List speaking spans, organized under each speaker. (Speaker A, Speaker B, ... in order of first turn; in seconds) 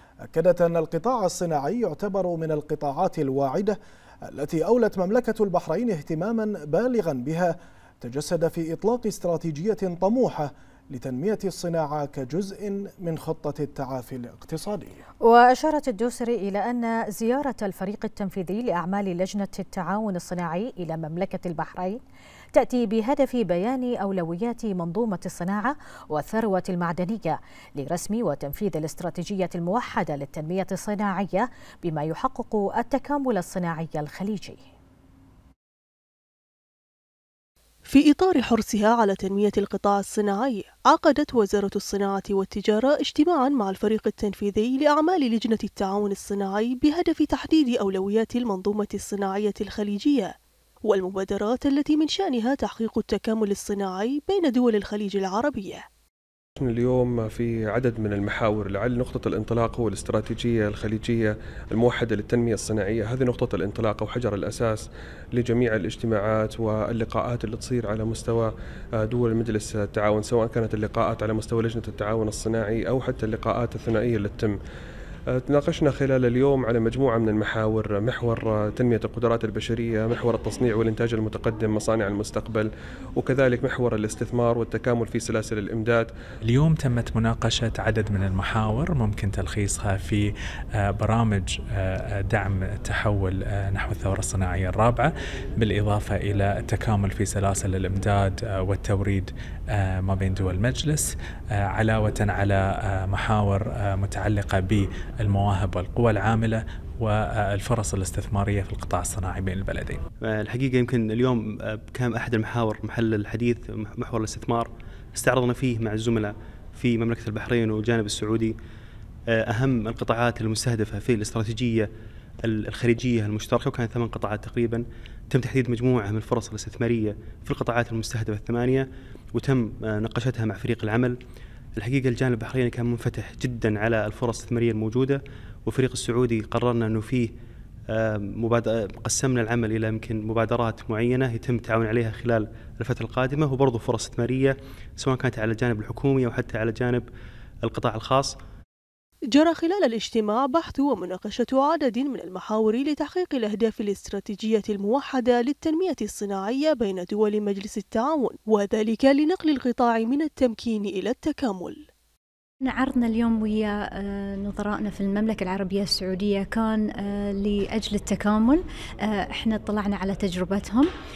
Speaker A: 0.3-3.8, 4.3-15.0
Speaker B: 15.2-22.0, 22.5-34.6
Speaker C: 37.9-50.3, 50.9-55.8, 149.3-161.8
Speaker D: 56.6-74.6, 75.3-86.1
Speaker E: 86.5-90.2, 90.8-101.1, 101.7-110.0
Speaker F: 110.2-118.5, 119.3-121.9, 122.4-131.2, 131.8-137.3, 137.9-147.1, 147.6-148.4
Speaker G: 162.6-170.9